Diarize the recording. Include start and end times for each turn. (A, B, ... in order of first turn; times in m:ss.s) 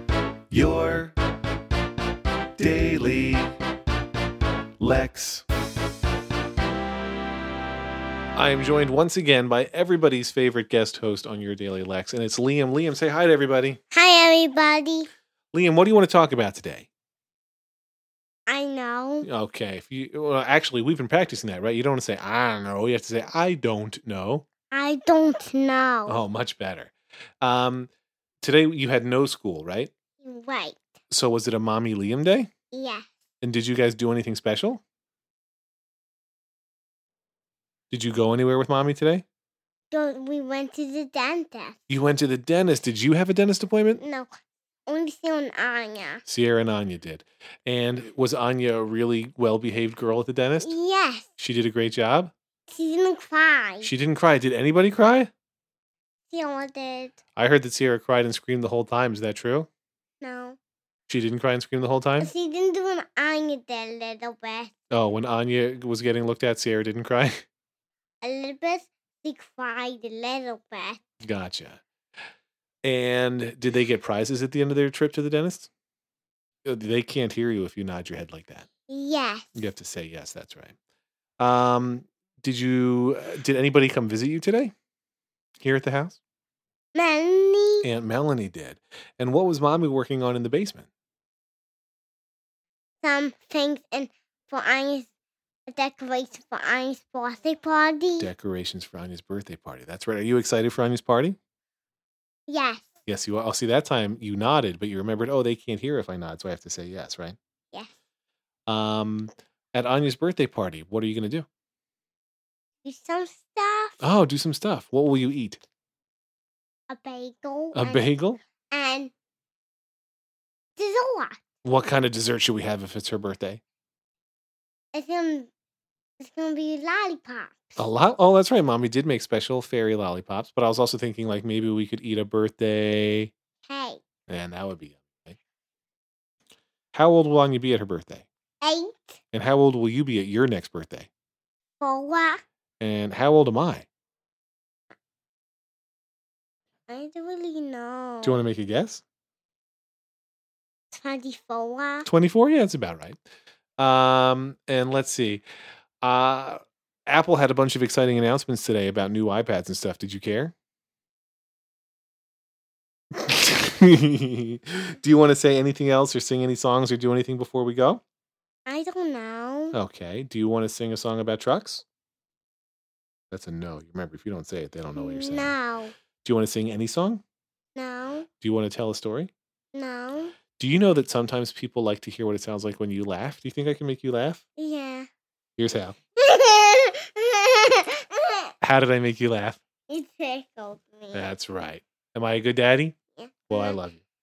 0:00.5-0:01.1 A
0:02.6-0:03.5 A
0:04.8-0:05.4 A
0:08.4-0:13.8 A
0:13.9-0:15.1 B
0:15.5-0:16.9 A
0:18.5-0:19.3 B
0:19.2-0:24.4 A
0:24.7-0:26.2 B
0:26.1-0:27.9 A
0:28.4-0:29.9 A
0:30.2-0:30.8 B
0:31.1-0:32.5 A
0:32.7-0:33.1 B
0:33.4-0:34.8 A
0:37.9-0:39.2 A
0:39.9-0:41.9 B
0:41.9-0:44.0 A
0:44.0-0:44.3 B
0:44.9-0:46.2 B
0:46.2-0:50.7 A
0:50.6-0:51.3 B
0:51.4-0:52.3 A
0:52.7-0:53.9 B
0:53.8-0:55.3 A
0:56.3-0:57.2 B
0:57.4-0:59.7 A
1:00.2-1:00.6 B
1:01.1-1:02.3 A
1:02.2-1:04.7 B
1:04.9-1:07.4 A
1:08.2-1:11.0 B
1:11.2-1:11.8 A
1:12.8-1:15.7 A
1:16.6-1:18.7 A
1:18.9-1:19.6 B
1:19.5-1:20.7 A
1:21.4-1:24.7 A
1:25.6-1:26.2 A
1:26.9-1:27.9 B
1:27.8-1:30.9 A
1:33.0-1:35.1 B
1:35.7-1:38.3 B
1:38.2-1:41.4 A
1:42.5-1:42.9 B
1:43.1-1:47.4 A
1:48.7-1:51.4 A
1:52.8-1:54.0 B
1:54.0-1:55.6 A
1:56.9-1:58.1 B
1:57.7-1:58.4 A
1:58.7-1:59.1 B
2:00.8-2:01.4 B
2:01.6-2:03.6 A
2:04.9-2:05.5 B
2:06.2-2:07.8 B
2:07.8-2:13.3 A
2:13.7-2:14.0 B
2:14.3-2:15.4 A
2:16.9-2:18.2 A
2:18.6-2:19.2 B
2:19.3-2:21.1 A
2:21.8-2:22.4 B
2:22.8-2:23.8 A
2:26.9-2:28.4 B
2:28.2-2:29.0 A
2:30.9-2:32.1 B
2:32.0-2:33.2 A
2:33.8-2:35.4 A
2:36.0-2:40.5 A
2:43.1-2:48.0 A
2:48.7-2:49.8 B
2:49.7-2:51.8 A
2:53.3-2:55.5 A
2:54.9-2:55.9 B
2:56.2-2:57.2 A
2:57.8-2:58.3 B
2:58.4-2:59.3 A
2:59.7-3:00.4 B
3:00.6-3:04.4 A
3:04.6-3:05.1 B
3:05.6-3:06.0 A
3:06.2-3:08.5 B
3:08.6-3:09.6 A
3:09.9-3:11.3 B
3:11.1-3:12.9 A
3:13.2-3:13.8 B
3:13.5-3:14.0 A